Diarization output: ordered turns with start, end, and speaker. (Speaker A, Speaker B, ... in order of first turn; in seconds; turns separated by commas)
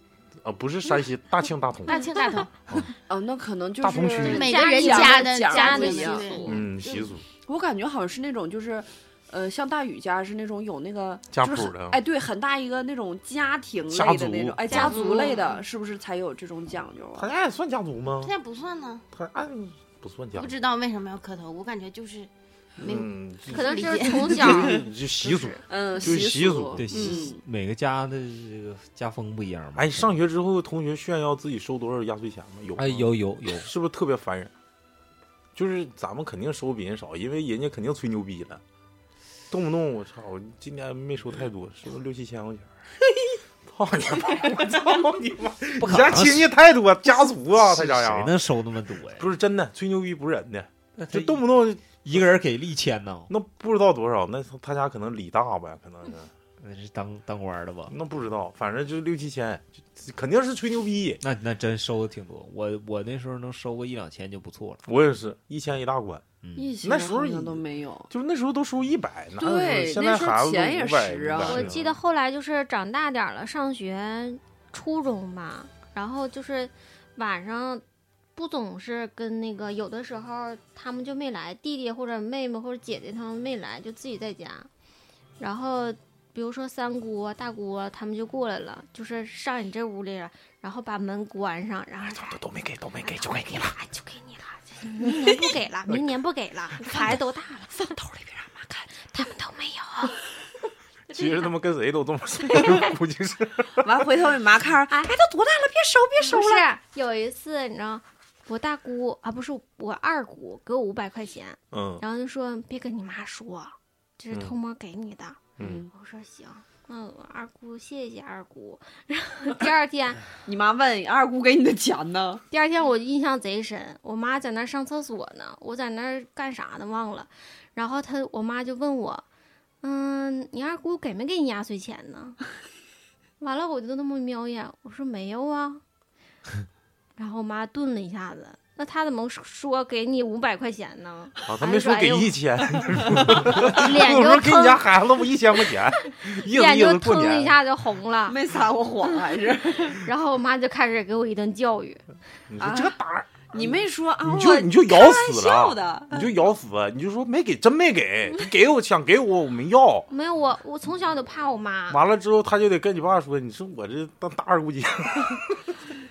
Speaker A: 0.4-2.0, Speaker B: 1.9-2.5, Speaker C: 3.1-6.5, Speaker A: 3.8-4.5, Speaker B: 4.2-7.1, Speaker D: 4.3-6.6, Speaker A: 6.5-7.2, Speaker C: 7.5-17.3, Speaker A: 11.3-12.0, Speaker A: 13.9-14.8, Speaker D: 14.7-15.6, Speaker B: 14.7-15.6, Speaker A: 17.2-18.3, Speaker B: 18.2-19.1, Speaker A: 19.1-20.5, Speaker B: 20.4-24.8, Speaker A: 22.8-26.9, Speaker D: 23.5-25.6, Speaker C: 25.7-27.4, Speaker E: 26.8-30.1, Speaker B: 26.9-27.3, Speaker A: 29.8-34.5, Speaker E: 32.8-33.7, Speaker A: 35.5-38.6, Speaker A: 39.5-42.7, Speaker A: 43.7-48.3, Speaker E: 45.8-46.5, Speaker E: 47.6-49.3, Speaker A: 49.2-52.2, Speaker E: 51.0-53.3, Speaker A: 53.3-56.3, Speaker E: 56.6-58.0, Speaker A: 57.9-61.2, Speaker E: 61.2-64.8, Speaker A: 64.9-66.3, Speaker E: 66.4-66.8, Speaker C: 66.6-68.1, Speaker A: 66.8-71.9, Speaker C: 69.4-71.7, Speaker D: 71.4-77.8, Speaker D: 78.3-84.7, Speaker D: 85.4-92.4, Speaker A: 92.1-93.8, Speaker D: 93.0-98.0, Speaker C: 96.8-97.2, Speaker C: 97.7-98.9, Speaker D: 99.0-100.2, Speaker A: 101.1-104.1, Speaker C: 103.8-106.7, Speaker D: 104.9-105.1, Speaker D: 106.2-120.3, Speaker A: 111.7-112.0, Speaker A: 115.6-115.8, Speaker C: 115.6-115.9, Speaker C: 120.5-122.4, Speaker D: 122.5-129.2, Speaker D: 129.8-132.4, Speaker D: 133.4-135.8, Speaker D: 137.2-142.3, Speaker A: 141.4-147.6, Speaker D: 143.4-144.9, Speaker D: 146.1-148.4, Speaker C: 148.3-150.1, Speaker D: 149.9-152.0, Speaker A: 152.5-160.1, Speaker C: 152.6-152.9, Speaker C: 153.5-156.3, Speaker D: 160.1-162.0, Speaker A: 161.9-165.8